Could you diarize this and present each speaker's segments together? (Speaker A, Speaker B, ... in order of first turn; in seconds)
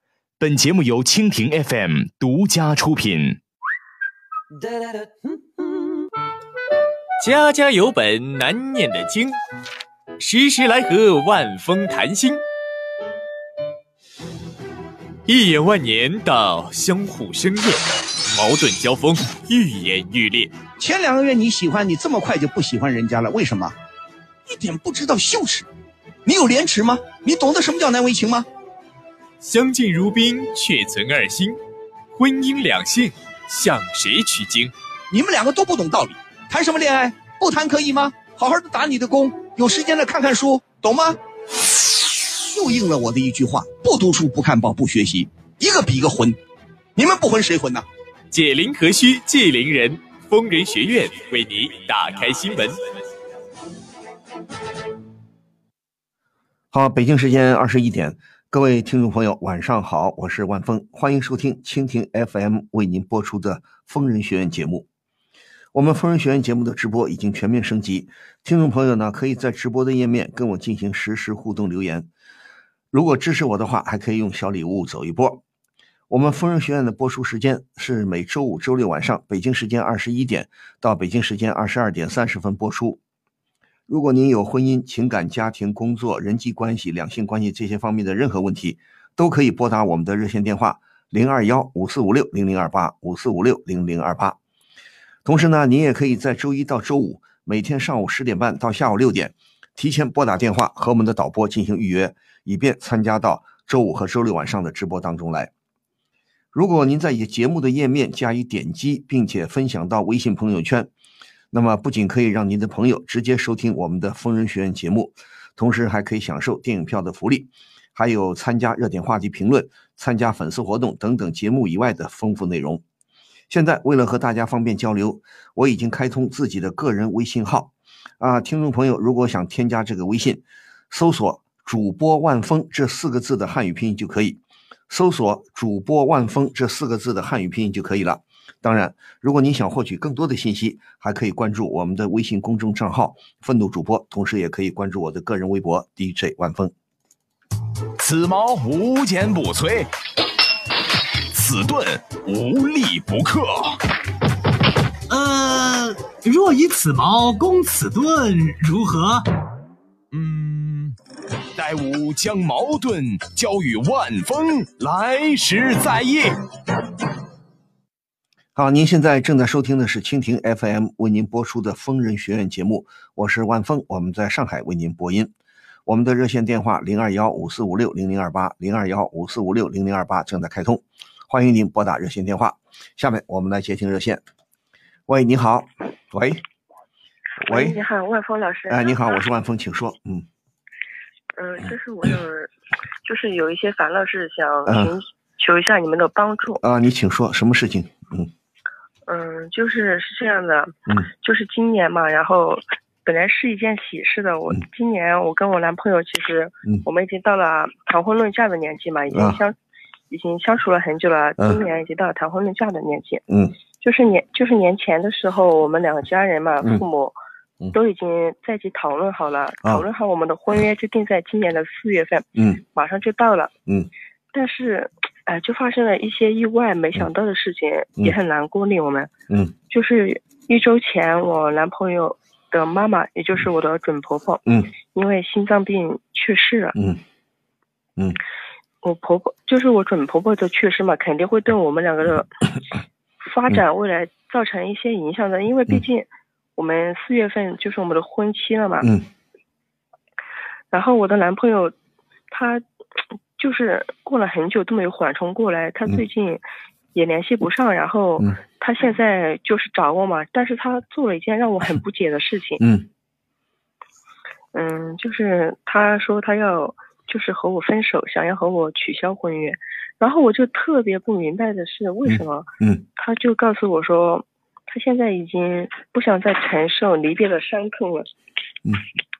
Speaker A: 0.4-3.4, 148.0-149.9, 151.3-153.8, 160.1-160.9, 161.5-166.3
Speaker B: 7.2-9.4, 10.2-12.4, 15.3-20.5, 29.4-31.6, 32.1-34.7, 48.3-52.8
Speaker C: 20.8-23.7, 24.4-25.7, 26.2-28.5, 35.1-41.2, 41.7-46.4, 47.0-47.8
Speaker D: 56.7-64.8, 65.7-72.1, 72.9-75.4, 76.1-83.0, 83.9-94.4, 95.2-105.5, 106.5-110.9, 111.5-122.8, 123.5-146.7, 168.5-175.3, 175.8-184.2, 185.1-186.4, 187.4-187.8, 188.7-190.2, 194.7-195.0, 196.6-198.3, 209.1-209.4, 213.3-213.5, 262.6-262.9, 272.1-272.8
Speaker E: 155.1-159.2
Speaker F: 187.5-189.2, 191.3-192.5, 193.0-196.6, 199.1-209.5, 210.1-213.2, 213.8-217.2, 217.7-223.5, 224.3-229.1, 229.7-236.8, 238.8-242.4, 243.2-248.9, 250.7-251.7, 252.3-252.6, 253.4-262.6, 264.5-278.1